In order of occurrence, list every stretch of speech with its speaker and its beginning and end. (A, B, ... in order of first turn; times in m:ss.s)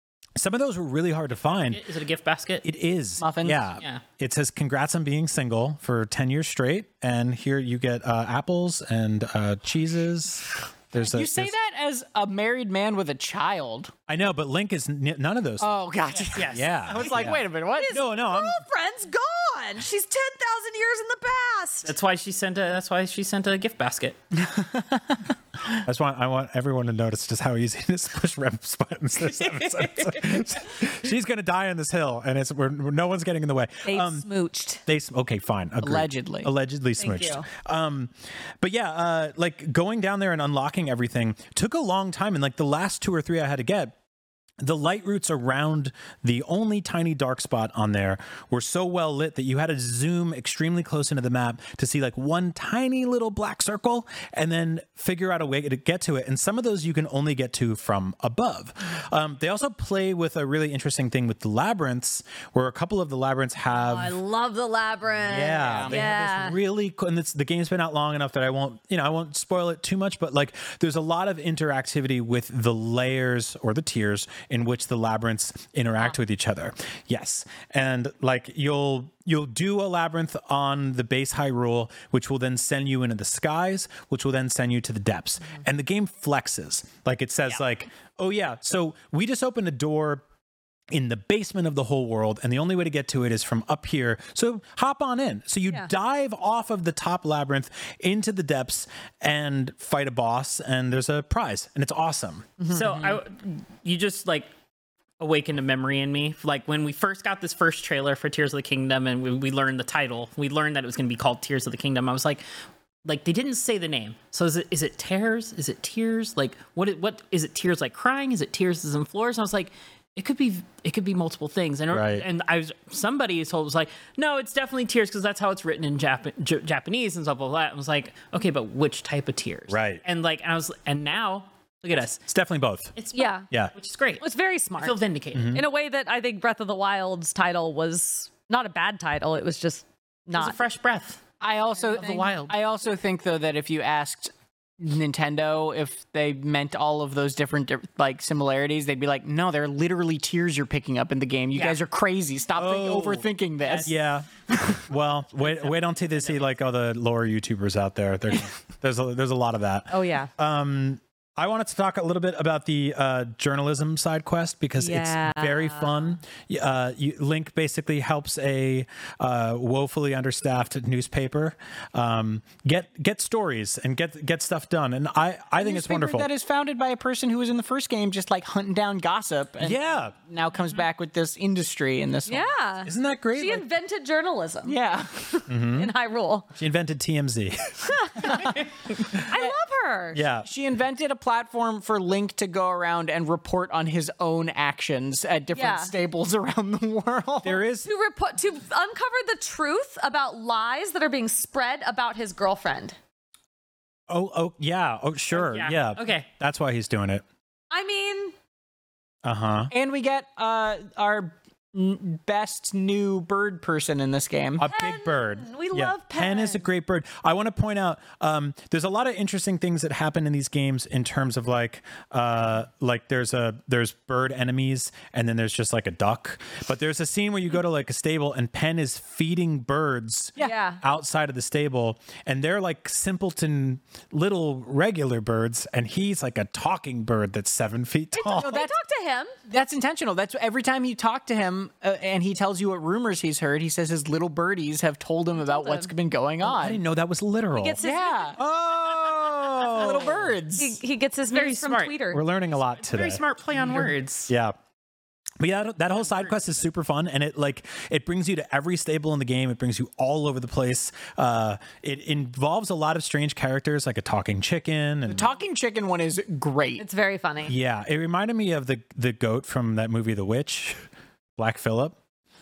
0:00.4-0:01.8 A
0:01.7-0:02.6 B
0:02.6-0:11.5 A
0:03.2-0:03.6 C
0:11.0-0:13.9 C
0:14.1-0:15.7 A
0:15.6-0:17.9 C
0:16.3-0:17.3 B
0:16.4-0:18.6 A
0:17.8-0:21.9 D
0:21.8-0:24.2 B
0:24.4-0:25.2 C
0:25.8-0:34.3 A
0:29.7-0:30.4 B
0:33.8-0:34.8 D
0:34.8-0:43.9 A
0:35.8-0:36.5 C
0:37.0-0:37.4 D
0:44.6-1:04.1 A
1:03.7-1:06.6 D
1:05.2-1:30.2 A
1:05.5-1:06.0 C
1:30.9-1:42.5 A
1:42.7-1:44.5 B
1:42.9-1:43.2 C
1:45.2-1:52.4 B
1:53.0-2:12.2 B
2:01.9-2:02.2 A
2:09.7-2:10.0 A
2:12.3-2:12.9 A
2:13.0-2:14.2 B
2:13.1-2:13.4 D
2:14.2-2:15.0 D
2:14.8-2:15.6 B
2:15.3-2:15.6 A
2:15.5-2:20.6 D
2:20.3-2:21.2 B
2:21.4-2:33.9 C
2:21.9-2:22.5 B
2:31.5-2:31.8 B
2:32.5-2:33.3 A
2:33.8-2:56.3 A
2:39.9-2:40.3 D
2:44.8-2:46.2 D
2:55.6-3:02.5 C
2:59.6-3:00.1 A
3:02.3-3:04.8 D
3:02.8-3:03.7 A
3:04.6-3:05.3 C
3:05.5-3:05.9 A
3:05.6-3:06.5 D
3:06.5-3:08.3 A
3:07.9-3:08.5 D
3:08.2-3:08.6 C
3:09.3-3:10.2 D
3:10.1-3:10.5 A
3:10.4-3:17.6 C
3:15.5-3:15.9 D
3:17.4-3:17.9 A
3:17.8-3:23.0 D
3:24.1-3:27.2 A
3:25.3-3:26.3 B
3:27.7-3:28.3 D
3:29.2-3:29.7 A
3:29.7-3:34.6 C
3:34.6-3:58.6 A
3:34.6-3:36.6 D
3:50.4-3:50.8 D
3:58.1-3:59.3 D
3:58.3-3:58.7 C
3:59.5-4:06.8 C
4:05.4-4:05.9 D
4:06.4-4:07.8 A
4:07.5-4:08.4 D
4:07.8-4:08.4 C
4:08.4-4:10.4 A
4:09.6-4:10.8 C
4:10.6-4:12.2 D
4:11.3-4:12.0 B
4:12.1-4:13.2 A
4:12.5-4:14.3 B
4:13.5-4:14.3 C
4:14.3-4:14.6 A
4:15.4-4:25.3 A
4:25.1-4:26.8 C
4:26.8-4:27.6 D
4:27.5-4:30.8 A
4:31.4-4:32.0 A